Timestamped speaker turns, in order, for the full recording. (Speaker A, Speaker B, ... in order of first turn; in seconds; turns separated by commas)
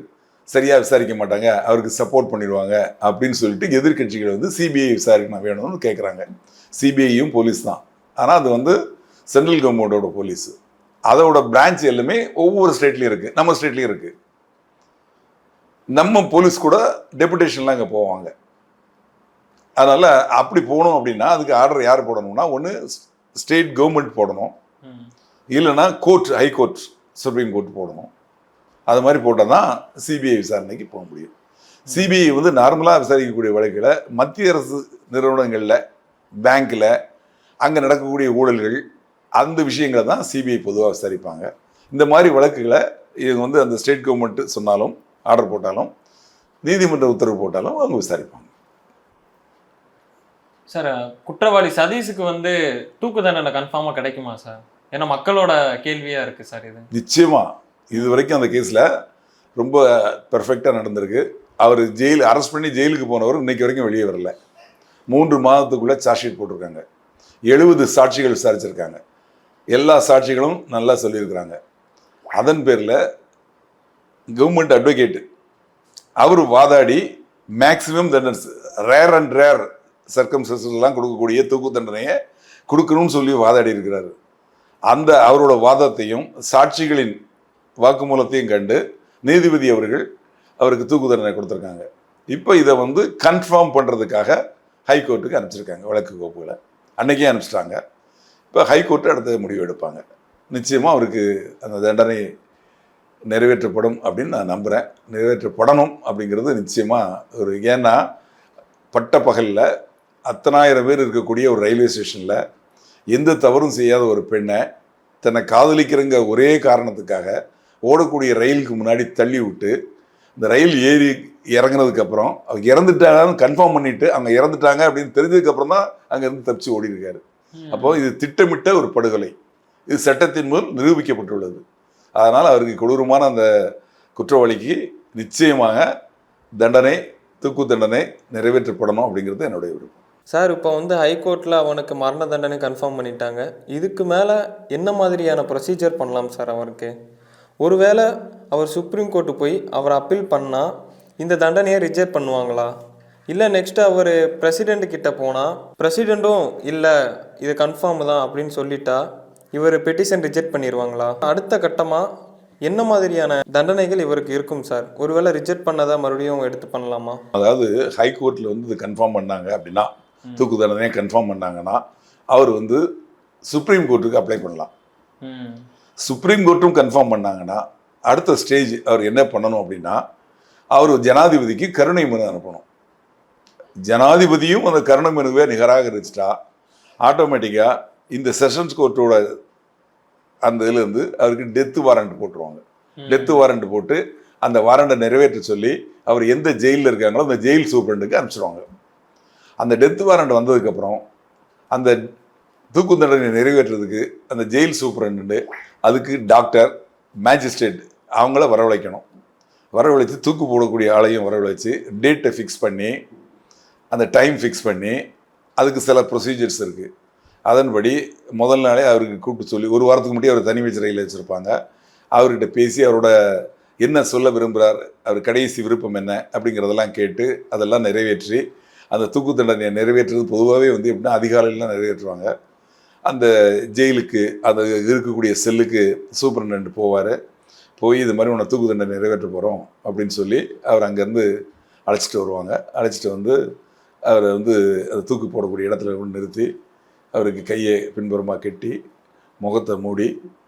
Speaker A: 0.5-6.2, Speaker A: 6.8-8.8, Speaker A: 9.3-10.6, Speaker A: 11.1-14.1, Speaker A: 15.9-18.3, Speaker A: 19.8-24.5, Speaker B: 24.8-25.1, Speaker A: 25.5-28.1, Speaker A: 28.9-31.3, Speaker A: 31.9-35.8, Speaker A: 36.4-36.9, Speaker A: 37.6-38.8, Speaker A: 39.4-45.9, Speaker A: 46.6-48.5, Speaker B: 50.7-56.9, Speaker A: 56.9-58.9, Speaker B: 58.0-58.2, Speaker A: 59.6-64.3, Speaker A: 65.1-66.8, Speaker A: 67.5-69.0, Speaker A: 69.7-71.6, Speaker A: 72.4-73.0, Speaker A: 74.3-75.2, Speaker A: 76.2-77.0, Speaker A: 77.6-82.1, Speaker A: 82.7-84.1, Speaker A: 84.9-87.2, Speaker A: 87.8-90.0, Speaker A: 90.6-94.4, Speaker A: 94.9-97.8, Speaker A: 98.5-102.2, Speaker A: 103.3-108.0, Speaker A: 108.9-109.6, Speaker A: 110.3-112.4, Speaker A: 113.1-114.6, Speaker A: 115.2-117.3, Speaker A: 117.9-119.7, Speaker A: 120.4-129.3, Speaker B: 127.6-128.0, Speaker A: 129.9-131.6, Speaker A: 132.2-133.5, Speaker A: 134.2-135.8, Speaker A: 136.6-140.0, Speaker C: 140.3-146.9, Speaker C: 147.6-150.7, Speaker C: 151.2-152.7, Speaker C: 153.3-159.0, Speaker C: 159.6-162.0, Speaker C: 162.7-167.2, Speaker A: 167.3-172.8, Speaker A: 173.5-174.7, Speaker B: 175.2-175.7, Speaker A: 176.0-180.0, Speaker A: 180.7-182.6, Speaker A: 183.9-186.3, Speaker A: 187.0-189.2, Speaker A: 190.4-198.6, Speaker B: 193.0-193.4, Speaker A: 199.6-201.0, Speaker A: 201.7-202.0, Speaker A: 202.7-209.0, Speaker A: 209.7-212.9, Speaker A: 213.9-215.0, Speaker A: 215.6-216.9, Speaker A: 217.5-221.5, Speaker A: 222.1-223.1, Speaker A: 223.8-232.3, Speaker A: 233.1-237.2, Speaker A: 237.8-241.2, Speaker A: 241.9-243.4, Speaker A: 244.1-246.5, Speaker A: 247.1-248.8, Speaker A: 249.4-250.1